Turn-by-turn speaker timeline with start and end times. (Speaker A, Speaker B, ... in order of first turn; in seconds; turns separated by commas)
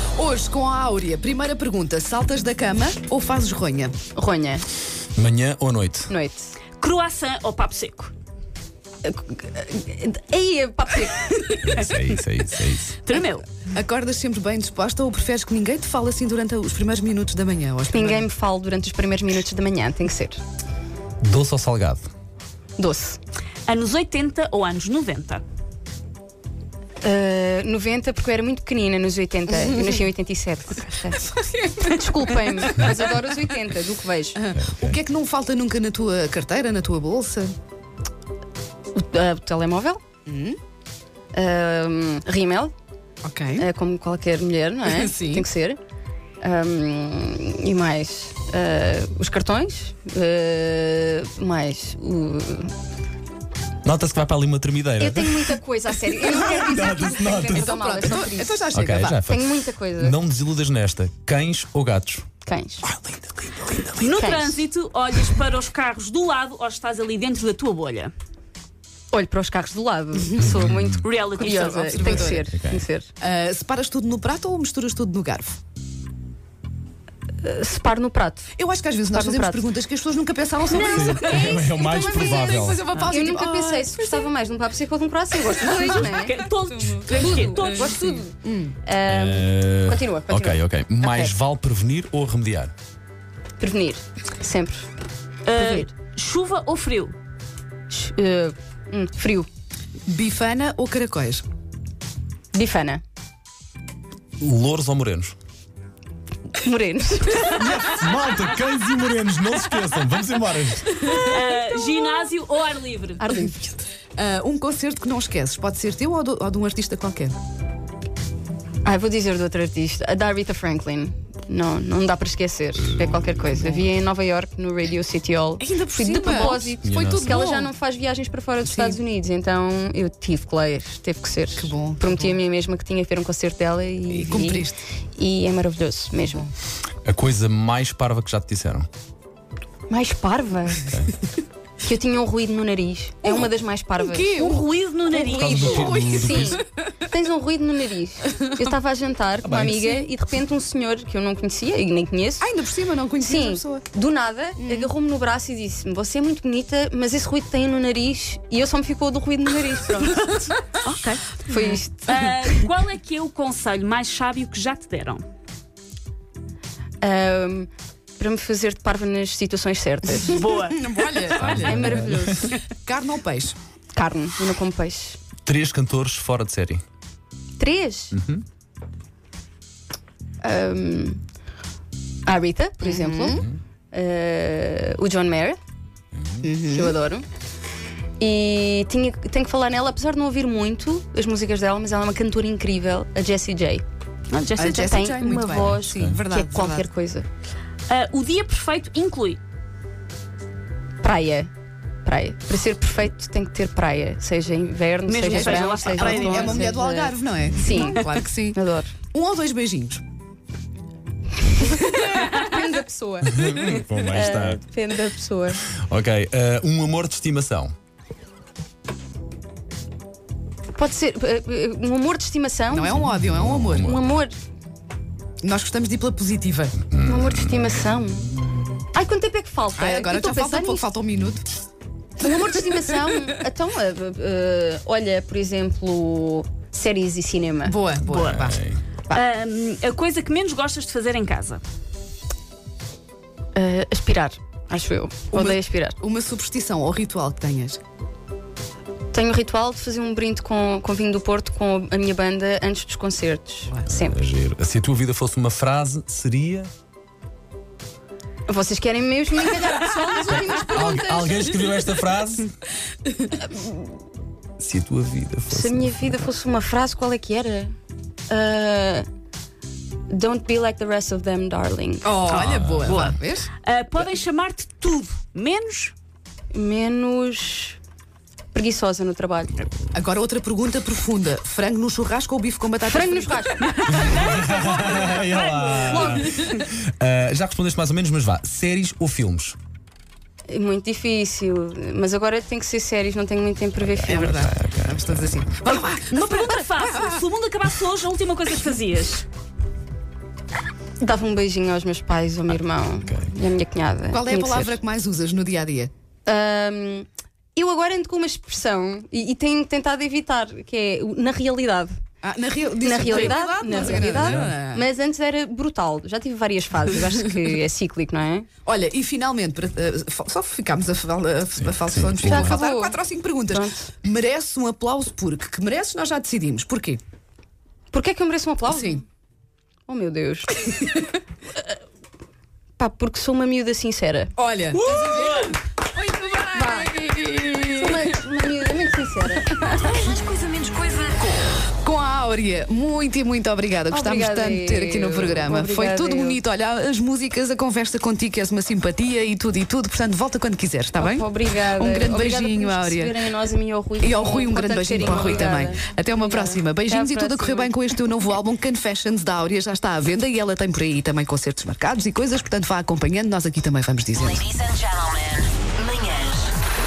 Speaker A: 0.1-4.0, Speaker B: 4.2-4.7, Speaker C: 5.2-6.1, Speaker B: 6.1-6.5, Speaker D: 6.8-8.1, Speaker B: 9.0-11.9, Speaker C: 11.6-13.0, Speaker D: 13.0-13.5, Speaker A: 13.7-18.3, Speaker B: 17.9-20.4, Speaker C: 21.2-22.1, Speaker B: 22.8-23.2, Speaker D: 23.7-25.4, Speaker B: 27.0-34.4, Speaker A: 31.4-32.0, Speaker A: 34.4-37.5, Speaker C: 34.5-35.0, Speaker B: 38.9-40.0, Speaker A: 40.3-40.6, Speaker B: 41.3-42.7, Speaker A: 43.2-43.7, Speaker B: 43.6-45.8, Speaker A: 44.9-45.5, Speaker B: 46.4-52.7, Speaker C: 53.8-55.6, Speaker B: 55.0-58.6, Speaker C: 56.3-57.8, Speaker A: 57.4-59.2, Speaker C: 58.7-62.2, Speaker B: 59.2-60.2, Speaker B: 62.5-62.9, Speaker C: 62.8-64.1, Speaker D: 64.0-68.1, Speaker B: 64.1-64.6, Speaker B: 69.1-73.1, Speaker C: 70.4-70.9, Speaker D: 71.0-72.4, Speaker A: 71.6-72.5, Speaker C: 72.5-72.8, Speaker A: 73.2-75.6, Speaker B: 77.4-78.5, Speaker A: 78.6-84.3, Speaker B: 79.1-79.7, Speaker B: 80.7-86.4, Speaker C: 80.9-82.9, Speaker D: 85.6-88.0, Speaker A: 86.9-88.8, Speaker B: 87.1-91.3, Speaker C: 89.1-92.7, Speaker B: 93.6-94.9, Speaker D: 95.5-97.2, Speaker B: 95.5-95.9, Speaker B: 97.9-99.5, Speaker A: 100.1-101.4, Speaker B: 102.5-103.0, Speaker C: 104.4-105.4, Speaker B: 106.5-107.6, Speaker C: 107.5-110.9, Speaker A: 110.9-112.3, Speaker D: 111.2-113.2, Speaker B: 113.2-113.8, Speaker A: 114.2-117.4, Speaker B: 118.8-136.5, Speaker A: 125.6-127.7, Speaker C: 126.8-127.5, Speaker A: 128.7-129.0, Speaker A: 131.6-132.4, Speaker A: 134.1-134.8, Speaker C: 137.1-138.9, Speaker B: 139.9-140.9, Speaker B: 141.8-144.4, Speaker A: 143.2-146.6, Speaker D: 144.3-145.9, Speaker C: 145.3-146.6, Speaker B: 145.8-152.5, Speaker C: 149.4-150.0, Speaker A: 152.4-153.8, Speaker B: 153.2-160.6, Speaker A: 154.6-154.9, Speaker D: 160.8-165.2, Speaker B: 161.4-162.3, Speaker B: 167.0-170.4, Speaker D: 170.2-171.6, Speaker A: 170.7-173.6, Speaker B: 171.4-172.6, Speaker C: 171.6-172.4, Speaker B: 173.9-175.2, Speaker C: 175.4-176.8, Speaker B: 177.6-178.2, Speaker C: 178.1-178.4, Speaker B: 180.4-181.2, Speaker B: 182.2-185.6, Speaker A: 182.8-183.4, Speaker C: 186.2-186.5, Speaker A: 186.4-187.0, Speaker B: 186.6-187.2, Speaker B: 188.2-193.8, Speaker D: 194.3-194.8, Speaker A: 194.6-196.9, Speaker B: 194.7-197.3, Speaker C: 195.7-196.2, Speaker D: 197.9-199.4, Speaker B: 201.0-201.5, Speaker B: 202.0-208.9, Speaker D: 205.1-206.7, Speaker A: 205.2-208.6, Speaker A: 209.1-210.0, Speaker B: 211.4-215.6, Speaker A: 211.7-212.2, Speaker C: 213.3-214.6, Speaker C: 215.7-217.7, Speaker B: 220.8-223.1, Speaker A: 222.7-223.9, Speaker C: 223.2-224.0, Speaker B: 223.8-224.3, Speaker A: 225.4-226.8, Speaker C: 226.9-227.8, Speaker B: 227.0-230.9, Speaker A: 229.8-231.5, Speaker B: 232.2-237.8, Speaker A: 237.7-239.2, Speaker D: 238.1-238.5, Speaker C: 238.3-238.8, Speaker D: 239.1-241.6, Speaker B: 243.6-246.0, Speaker A: 245.3-247.8, Speaker B: 249.1-254.2, Speaker C: 253.9-256.7, Speaker B: 258.5-261.5, Speaker C: 260.3-262.5, Speaker B: 263.5-263.8, Speaker C: 264.6-266.3, Speaker B: 265.5-267.7, Speaker B: 268.3-269.1, Speaker B: 270.1-272.2, Speaker A: 272.0-273.5, Speaker C: 272.5-273.0, Speaker D: 272.8-275.9, Speaker B: 276.5-277.8, Speaker B: 278.5-279.7, Speaker A: 279.9-283.6, Speaker B: 282.9-284.2, Speaker D: 283.8-286.5, Speaker C: 283.9-289.6, Speaker B: 285.5-286.3, Speaker B: 290.5-294.5, Speaker C: 293.9-295.3, Speaker A: 294.1-297.2, Speaker D: 296.1-299.3, Speaker B: 301.0-304.8, Speaker C: 303.1-303.3, Speaker A: 304.1-305.9, Speaker B: 306.3-312.0, Speaker A: 312.2-314.8, Speaker B: 312.8-318.5, Speaker C: 314.2-314.5, Speaker A: 318.7-327.0, Speaker C: 321.7-322.6, Speaker B: 322.2-323.9, Speaker B: 327.9-329.1, Speaker A: 328.7-329.0, Speaker B: 329.9-330.7, Speaker B: 332.8-334.3, Speaker A: 334.4-338.1, Speaker D: 334.8-335.5, Speaker B: 336.5-336.9, Speaker B: 337.7-339.9, Speaker E: 339.8-341.6, Speaker A: 341.6-353.2, Speaker B: 343.9-346.4, Speaker B: 351.0-357.7, Speaker A: 354.0-364.5, Speaker E: 364.5-366.5